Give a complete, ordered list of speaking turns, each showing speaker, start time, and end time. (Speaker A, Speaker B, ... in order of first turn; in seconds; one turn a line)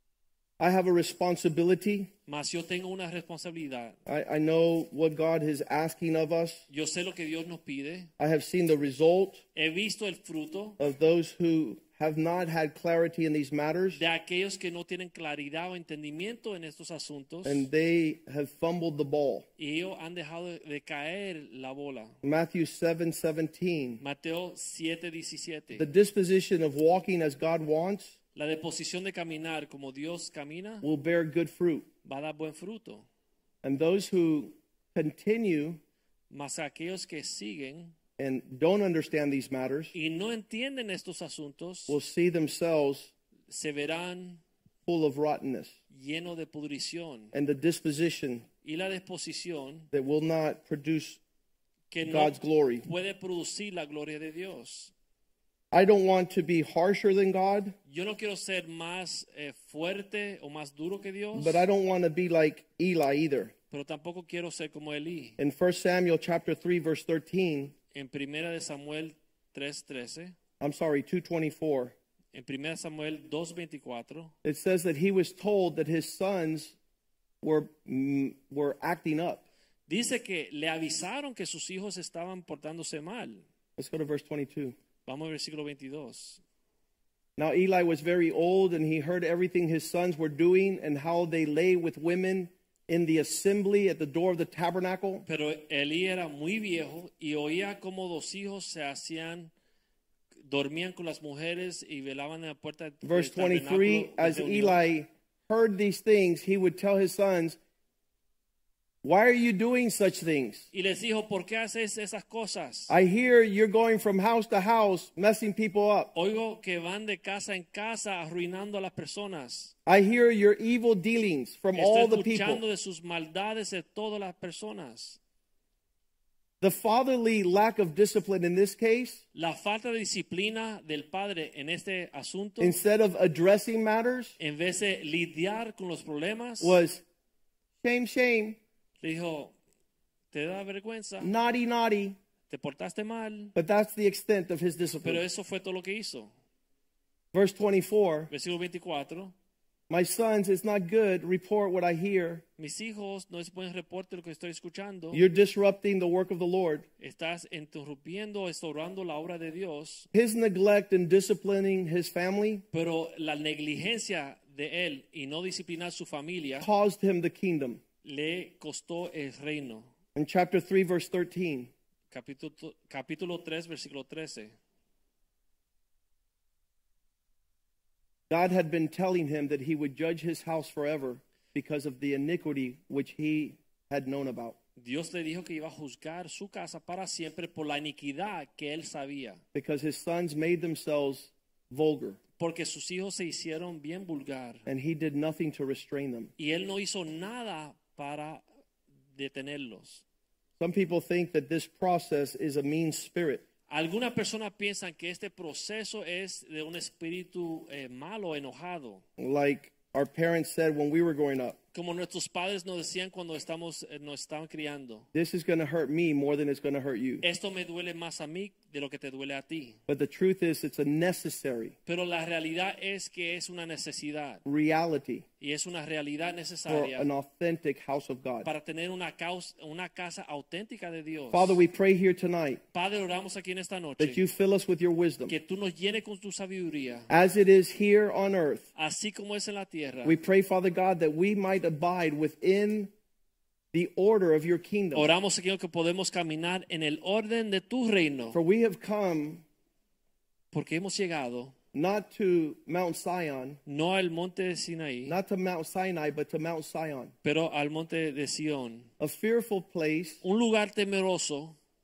Speaker A: 0.6-2.1
Speaker B: 2.3-4.0
Speaker A: 4.1-6.6
Speaker B: 6.7-8.1
Speaker A: 8.2-9.4
Speaker B: 9.6-10.8
Speaker A: 10.8-14.0
Speaker B: 13.9-17.7
Speaker A: 17.4-19.5
Speaker B: 19.6-22.2
Speaker A: 22.2-24.0
Speaker B: 24.0-25.9
Speaker A: 25.7-28.1
Speaker B: 28.4-30.9
Speaker A: 30.8-31.9
Speaker B: 32.0-33.1
Speaker A: 33.6-35.8
Speaker B: 36.3-37.9
Speaker A: 38.2-39.9
Speaker B: 39.9-42.0
Speaker A: 41.9-43.1
Speaker B: 43.5-44.4
Speaker A: 44.9-45.8
Speaker B: 45.9-47.3
Speaker A: 47.3-48.5
Speaker B: 48.6-49.9
Speaker A: 49.9-51.2
Speaker B: 51.9-54.9
Speaker A: 52.1-52.9
Speaker A: 55.7-57.8
Speaker B: 57.9-61.7
Speaker A: 61.4-63.5
Speaker B: 63.7-65.4
Speaker A: 65.4-67.7
Speaker B: 67.9-70.3
Speaker A: 70.6-71.9
Speaker B: 72.3-74.3
Speaker A: 74.4-76.8
Speaker A: 77.4-79.5
Speaker B: 79.9-83.4
Speaker A: 83.8-84.8
Speaker B: 85.1-86.4
Speaker A: 87.4-95.2
Speaker B: 95.3-99.5
Speaker B: 100.4-104.8
Speaker A: 103.0-107.6
Speaker A: 109.0-110.7
Speaker B: 110.7-112.9
Speaker A: 112.9-116.1
Speaker B: 116.2-119.7
Speaker A: 119.9-122.6
Speaker B: 121.8-125.2
Speaker A: 126.6-129.2
Speaker B: 129.3-132.8
Speaker A: 132.6-134.4
Speaker B: 134.4-136.8
Speaker A: 136.6-137.0
Speaker A: 137.8-138.6
Speaker B: 139.0-139.5
Speaker B: 140.3-141.3
Speaker A: 141.2-142.2
Speaker B: 142.5-143.6
Speaker A: 143.6-145.2
Speaker B: 145.0-146.3
Speaker A: 147.3-148.3
Speaker B: 148.3-149.3
Speaker A: 149.9-152.4
Speaker B: 152.6-155.2
Speaker A: 155.1-156.9
Speaker B: 157.0-160.1
Speaker A: 160.1-162.6
Speaker B: 162.7-166.7
Speaker A: 166.6-167.8
Speaker B: 168.0-169.9
Speaker A: 170.2-171.7
Speaker B: 172.1-174.5
Speaker A: 178.3-184.6
Speaker B: 184.8-189.4
Speaker A: 189.5-192.2
Speaker B: 192.4-194.6
Speaker A: 194.7-196.3
Speaker B: 196.4-198.4
Speaker B: 199.2-200.0
Speaker A: 200.6-203.4
Speaker B: 203.7-209.0
Speaker A: 209.2-211.6
Speaker B: 211.7-215.1
Speaker A: 215.1-217.2
Speaker B: 217.2-219.8
Speaker A: 219.9-221.8
Speaker B: 221.9-224.4
Speaker A: 224.4-225.2
Speaker B: 225.4-227.1
Speaker A: 226.7-228.5
Speaker B: 228.4-231.6
Speaker A: 231.3-232.6
Speaker B: 232.7-234.2
Speaker A: 234.0-235.3
Speaker B: 235.3-237.1
Speaker A: 237.1-238.7
Speaker B: 238.8-240.2
Speaker A: 240.1-242.9
Speaker A: 243.7-245.1
Speaker B: 244.9-248.4
Speaker A: 248.3-249.4
Speaker B: 250.5-251.5
Speaker A: 251.7-253.6
Speaker B: 253.7-255.2
Speaker A: 255.1-257.1
Speaker B: 257.2-258.9
Speaker A: 259.0-260.2
Speaker B: 260.2-261.6